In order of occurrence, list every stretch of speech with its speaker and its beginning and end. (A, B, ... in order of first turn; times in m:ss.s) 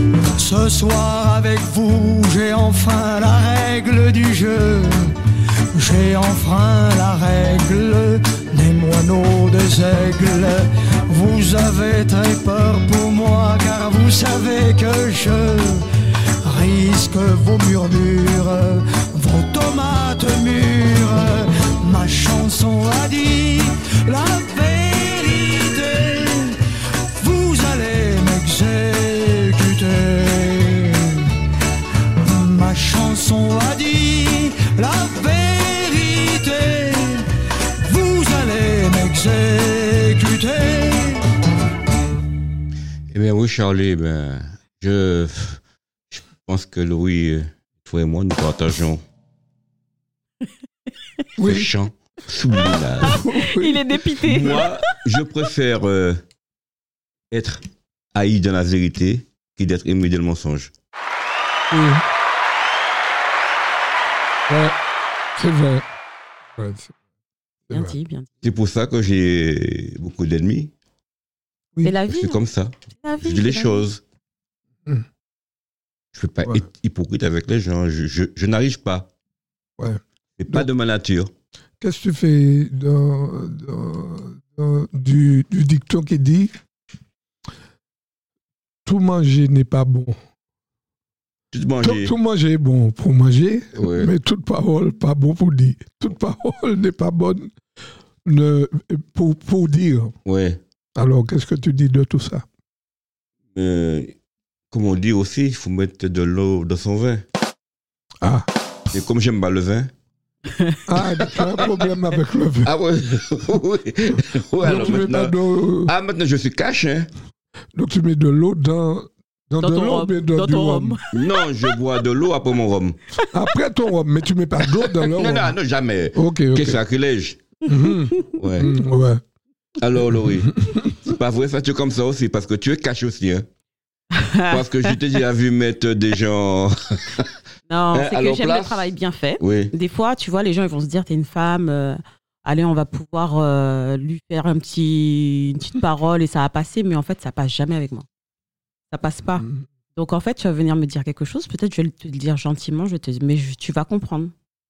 0:00.4-0:05.2 A
0:05.7-0:15.8 A
0:16.4-0:26.6 A
0:27.1-0:31.4 A
0:32.2-0:37.2 A
0:37.8-0:41.2 A
0:43.1-0:45.6 B
0:46.1-0:49.0 B
0:51.4-0:51.7 C
0:51.4-0:53.2 B
0:53.0-0:53.9 C
0:53.0-0:54.8 D
0:54.2-0:56.2 B
0:57.3-0:57.6 B
0:58.1-1:00.7 B
1:01.7-1:02.0 C
1:04.5-1:04.8 C
1:05.4-1:05.8 C
1:06.6-1:06.9 C
1:07.7-1:07.9 C
1:07.7-1:08.3 D
1:08.4-1:10.7 B
1:11.8-1:12.4 D
1:12.1-1:14.0 B
1:13.0-1:13.9 D
1:16.1-1:19.1 B
1:19.8-1:20.7 C
1:20.4-1:21.3 B
1:21.8-1:26.6 C
1:28.8-1:30.2 C
1:31.5-1:32.1 B
1:31.8-1:37.5 C
1:33.8-1:34.1 B
1:38.2-1:40.2 C
1:40.2-1:40.6 B
1:41.0-1:42.5 C
1:43.5-1:44.1 B
1:44.7-1:47.2 B
1:48.2-1:48.5 C
1:48.9-1:49.9 B
1:50.9-1:52.7 C
1:51.2-1:51.7 B
1:52.6-1:57.1 B
1:54.6-1:55.9 C
1:57.7-2:01.0 C
1:59.6-2:01.2 D
2:01.1-2:03.0 B
2:03.3-2:05.6 C
2:05.1-2:07.4 B
2:06.1-2:06.8 C
2:07.7-2:09.2 C
2:07.8-2:08.3 D
2:08.4-2:08.7 B
2:09.8-2:10.5 B
2:10.2-2:11.0 C
2:11.0-2:13.5 B
2:14.2-2:15.0 D
2:14.5-2:17.3 B
2:17.7-2:28.1 D
2:17.9-2:18.9 B
2:19.4-2:19.7 B
2:28.9-2:34.3 D